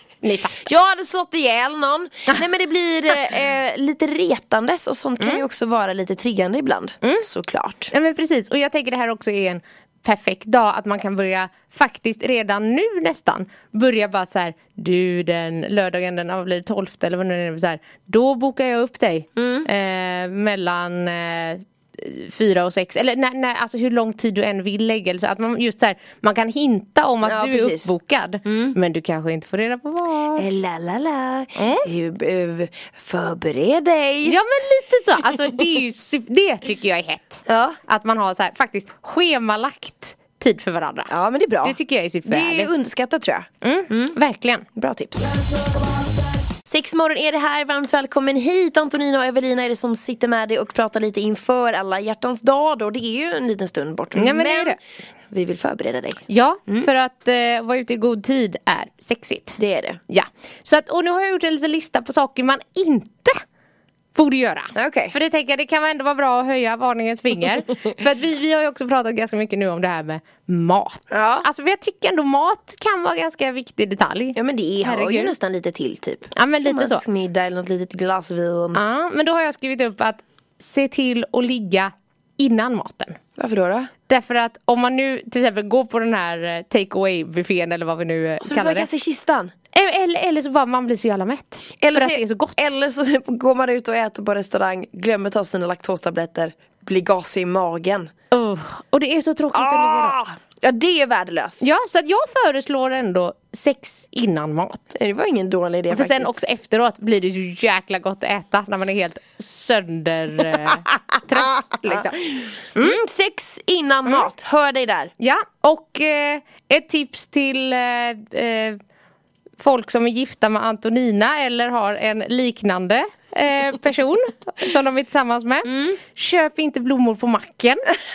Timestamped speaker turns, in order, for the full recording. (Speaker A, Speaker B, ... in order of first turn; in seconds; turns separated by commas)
Speaker A: 0.2-0.7, Speaker B: 0.6-7.9, Speaker A: 5.2-5.4, Speaker A: 7.9-30.4, Speaker B: 19.4-19.7, Speaker B: 27.2-27.9, Speaker B: 28.4-28.8, Speaker B: 30.4-34.4, Speaker A: 31.6-31.9, Speaker A: 34.2-42.8, Speaker B: 37.5-37.8, Speaker B: 41.1-44.1, Speaker A: 43.6-44.6, Speaker B: 44.7-45.3, Speaker B: 46.7-54.8, Speaker A: 54.1-54.8, Speaker B: 55.3-56.9, Speaker A: 56.3-63.4, Speaker B: 59.6-60.0, Speaker A: 64.1-75.3, Speaker B: 64.7-65.1, Speaker B: 71.1-71.5, Speaker B: 74.3-78.8, Speaker A: 76.3-77.0, Speaker A: 78.7-83.2, Speaker B: 83.3-83.9, Speaker A: 84.1-88.9, Speaker B: 88.4-89.5, Speaker A: 89.7-92.7, Speaker B: 91.8-98.1, Speaker A: 98.3-100.2, Speaker B: 99.5-101.7, Speaker A: 101.6-104.9, Speaker B: 104.9-106.4, Speaker A: 105.9-113.0, Speaker B: 111.8-112.1, Speaker B: 112.7-115.1, Speaker A: 114.0-114.3, Speaker A: 115.2-118.8, Speaker A: 119.6-127.9, Speaker B: 125.6-126.0